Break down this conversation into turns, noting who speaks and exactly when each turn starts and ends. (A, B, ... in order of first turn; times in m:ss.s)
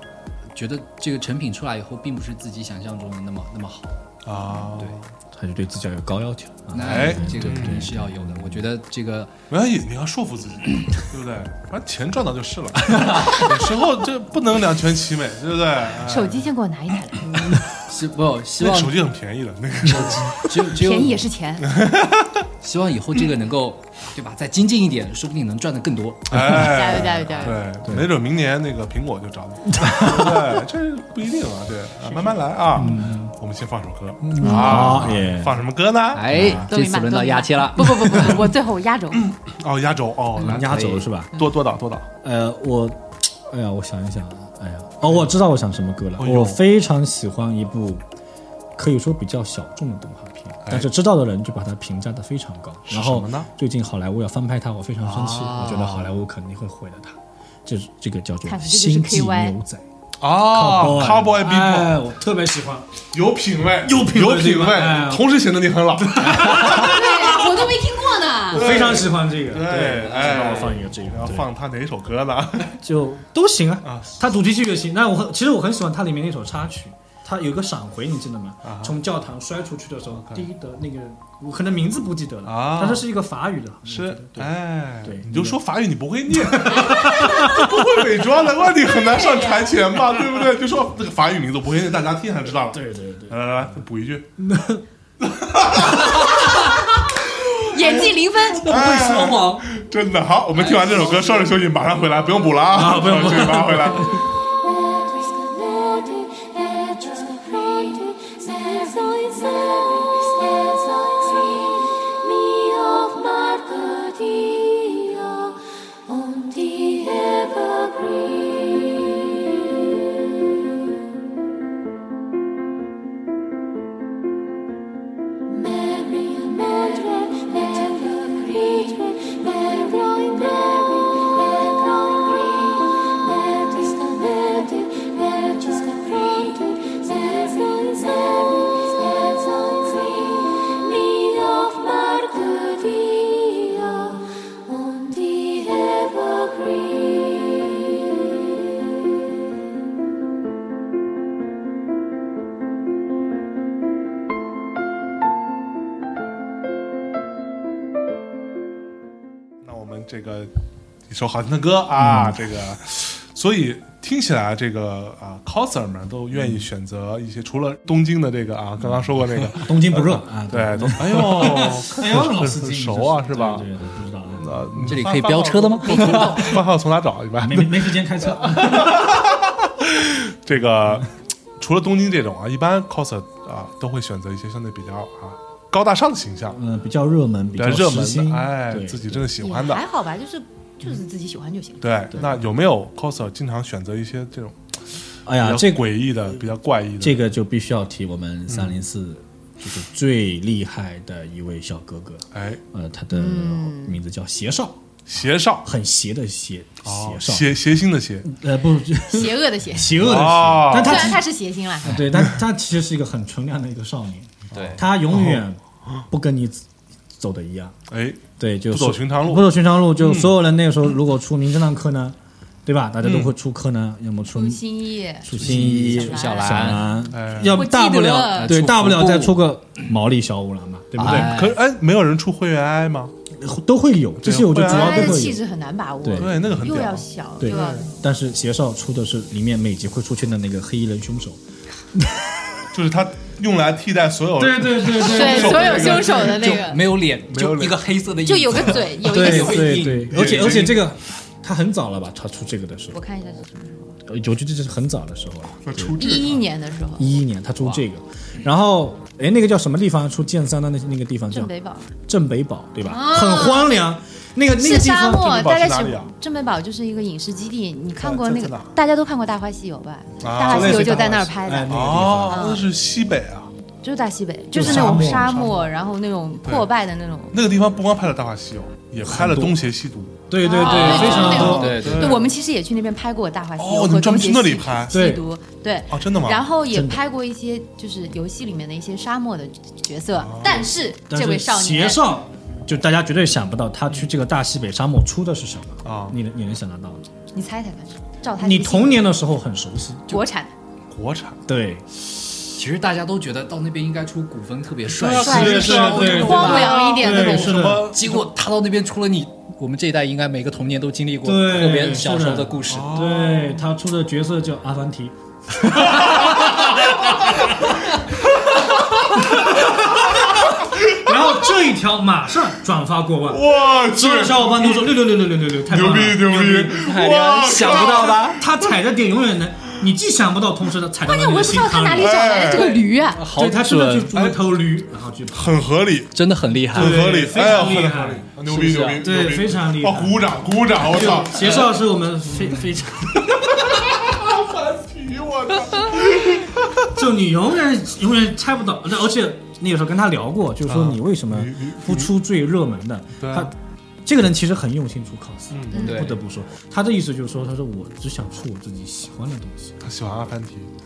0:00.5-0:04.0 A
0:04.2-0:05.1 B
0:05.3-0:08.6 C
0:06.7-0:09.3 A
0:06.8-0:07.9 B
0:09.5-0:16.5 B
0:12.9-0:13.6 A
0:16.1-0:17.4 D
0:17.7-0:19.0 A
0:18.6-0:20.5 B
0:19.8-0:20.4 C
0:20.1-0:21.3 A
0:20.6-0:21.7 D
0:21.6-0:22.4 B
0:22.6-0:26.6 A
0:26.3-0:36.7 B
0:26.3-0:26.6 C
0:26.6-0:27.6 D
0:27.8-0:28.1 C
0:29.7-0:30.6 C
0:32.7-0:33.3 C
0:34.2-0:35.6 C
0:34.4-0:35.0 D
0:34.7-0:35.1 A
0:36.1-0:38.5 A
0:36.3-0:36.7 C
0:36.5-0:39.3 D
0:39.2-0:42.1 B
0:40.4-0:41.1 A
0:40.4-0:41.4 C
0:42.2-0:48.0 C
0:46.2-0:46.6 B
0:48.8-1:02.9 C
0:52.9-0:53.5 B
0:55.0-0:56.2 A
0:58.4-0:59.6 D
1:00.2-1:02.0 B
1:03.1-1:07.0 B
1:03.8-1:05.3 C
1:06.0-1:07.7 C
1:06.6-1:08.7 D
1:08.5-1:11.5 C
1:08.5-1:12.8 B
1:10.2-1:10.6 A
1:12.6-1:25.6 C
1:13.8-1:14.2 B
1:18.6-1:19.0 B
1:20.2-1:20.5 B
1:22.5-1:23.0 B
1:23.9-1:34.3 B
1:26.3-1:28.0 C
1:26.9-1:27.5 D
1:29.0-1:29.8 D
1:32.7-1:33.8 C
1:34.4-1:34.8 C
1:35.2-1:36.6 B
1:37.6-1:38.8 D
1:38.6-1:44.3 B
1:38.6-1:39.7 C
1:42.7-1:44.3 C
1:49.0-1:49.6 D
1:53.8-1:54.7 D
1:56.7-1:57.2 D
2:06.8-2:09.2 D
2:15.4-2:18.0 E
2:15.6-2:16.6 D
2:20.9-2:22.8 E
2:22.4-2:22.6 D
2:24.8-2:25.9 E
2:39.6-2:40.5 B
2:41.1-2:53.7 B
2:42.0-2:42.4 C
2:46.3-2:46.6 C
2:49.5-2:55.0 C
2:54.4-3:06.6 B
2:54.9-2:56.6 A
2:57.4-2:59.2 C
3:06.5-3:09.3 C
3:07.6-3:09.8 B
3:09.4-3:12.3 D
3:11.8-3:14.7 B
3:15.3-3:16.4 C
3:15.3-3:17.2 B
3:17.0-3:24.8 C
3:18.5-3:18.8 B
3:22.3-3:22.6 B
3:23.1-3:24.0 D
3:25.1-3:25.7 B
3:25.6-3:27.6 C
3:26.8-3:28.3 B
3:28.2-3:31.2 C
3:29.1-3:30.0 D
3:29.9-3:31.2 B
3:30.7-3:32.0 D
3:31.8-3:37.8 C
3:34.5-3:35.4 B
3:34.5-3:34.8 A
3:37.9-3:40.4 B
3:38.4-3:44.6 C
3:43.0-3:43.3 B
3:44.3-3:48.6 D
3:45.2-3:51.4 C
3:45.3-3:46.9 A
3:45.4-3:45.8 B
3:47.1-3:47.6 B
3:48.3-3:49.4 A
3:51.0-3:51.6 A
3:51.0-3:53.1 B
3:53.3-3:55.4 C
3:54.2-3:55.3 B
3:54.6-3:58.0 D
3:56.0-3:56.7 C
3:56.2-3:57.8 B
3:57.4-4:01.4 C
4:01.9-4:02.3 C
4:02.7-4:07.8 B
4:04.4-4:06.5 C
4:04.9-4:06.8 D
4:06.3-4:10.1 A
4:08.2-4:09.9 D
4:09.0-4:13.0 C
4:09.8-4:10.8 B
4:12.9-4:14.0 D
4:14.0-4:16.0 C
4:15.6-4:16.4 B
4:15.9-4:17.1 D
4:17.0-4:21.5 C
4:21.3-4:21.9 D
4:22.1-4:25.4 C
4:22.8-4:23.8 D
4:24.6-4:32.6 D
4:25.1-4:26.1 B
4:28.0-4:28.8 B
4:30.2-4:31.1 B
4:30.4-4:32.5 C
4:31.7-4:33.5 B
4:33.8-4:37.4 D
4:34.5-4:35.5 C
4:34.6-4:35.7 B
4:36.4-4:36.7 B
4:37.3-4:42.3 B
4:39.0-4:39.6 C
4:40.3-4:41.9 C
4:40.4-4:52.2 D
4:40.6-4:42.3 A
4:43.6-4:45.1 B
4:44.9-4:45.2 C
4:45.9-4:46.5 B
4:46.7-4:47.0 C
4:50.1-4:50.7 B
4:51.0-4:57.1 C
4:55.8-4:56.2 B
4:57.3-4:59.2 D
4:58.4-5:00.2 C
5:00.1-5:00.5 D
5:00.9-5:01.4 B
5:01.5-5:01.8 C
5:02.5-5:06.9 A
5:04.9-5:08.2 B
5:05.1-5:08.0 C
5:05.2-5:07.8 D
5:07.9-5:13.0 A
5:11.2-5:17.5 C
5:12.7-5:13.6 B
5:15.8-5:17.2 B
5:18.9-5:21.0 B
5:19.2-5:26.9 C
5:23.3-5:25.0 B
5:25.7-5:28.6 B
5:26.7-5:28.4 A
5:27.6-5:32.2 C
5:31.0-5:33.2 D
5:32.0-5:32.8 B
5:32.5-5:34.1 A
5:33.2-5:35.7 C
5:34.0-5:34.4 B
5:35.3-5:41.6 B
5:36.1-5:37.9 A
5:36.7-5:43.8 C
5:38.5-5:39.0 A
5:43.2-5:46.9 B
5:46.9-5:59.8 C
5:50.7-5:52.1 B
5:53.2-5:53.5 B
5:55.5-5:55.9 B
5:55.8-5:56.1 D
5:55.8-5:56.2 A
5:59.8-6:00.7 B